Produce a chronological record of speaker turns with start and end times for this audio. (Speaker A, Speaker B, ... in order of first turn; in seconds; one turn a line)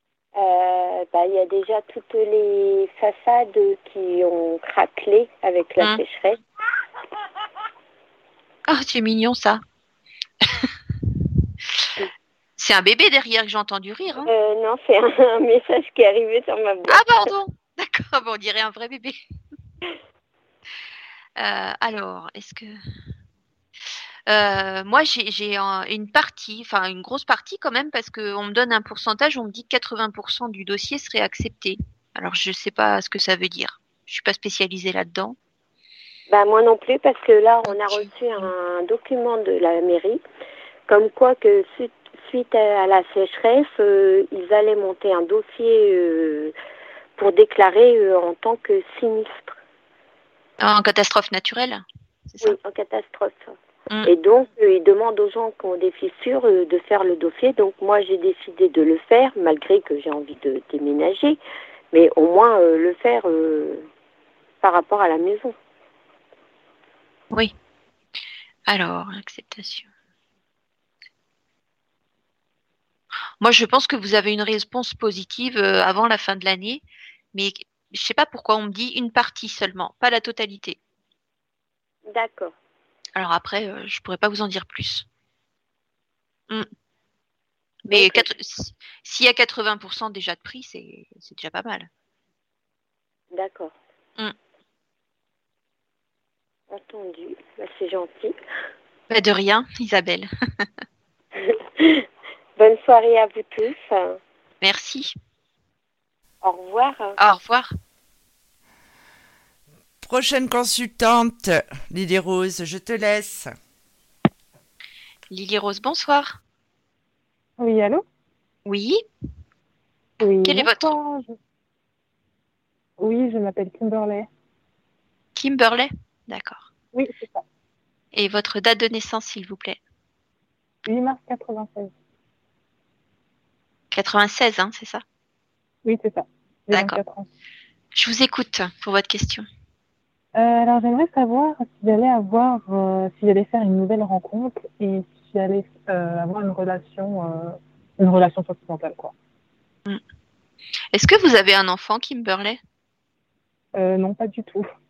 Speaker A: 0.3-6.4
Speaker B: 8.7-9.6
Speaker B: 12.6-14.3
Speaker A: 14.2-17.3
Speaker B: 16.9-19.2
Speaker B: 21.4-22.7
Speaker B: 24.3-35.4
Speaker A: 36.3-40.2
Speaker B: 37.7-38.5
Speaker A: 40.9-46.5
Speaker A: 47.2-49.5
Speaker B: 50.6-52.6
Speaker A: 52.4-61.4
Speaker A: 61.9-63.9
Speaker A: 64.6-65.5
Speaker B: 68.7-69.9
Speaker B: 73.4-76.8
Speaker B: 77.3-80.8
Speaker A: 82.1-82.5
Speaker B: 83.2-85.0
Speaker B: 87.9-91.9
Speaker A: 87.9-88.2
Speaker A: 93.3-93.7
Speaker A: 96.7-98.3
Speaker B: 99.1-100.7
Speaker A: 101.4-102.0
Speaker A: 102.6-104.2
Speaker B: 104.6-105.1
Speaker A: 106.4-107.3
Speaker B: 107.2-107.7
Speaker C: 110.0-113.5
Speaker B: 115.3-116.4
Speaker D: 117.6-118.0
Speaker B: 118.7-119.0
Speaker D: 120.2-121.3
Speaker B: 120.4-120.9
Speaker D: 123.0-124.3
Speaker B: 125.3-126.7
Speaker D: 126.9-127.4
Speaker B: 128.1-129.8
Speaker D: 130.8-131.9
Speaker B: 133.9-135.0
Speaker D: 135.8-137.3
Speaker B: 136.7-137.0
Speaker B: 137.9-139.5
Speaker D: 140.3-149.1
Speaker B: 150.9-152.6
Speaker D: 153.7-154.7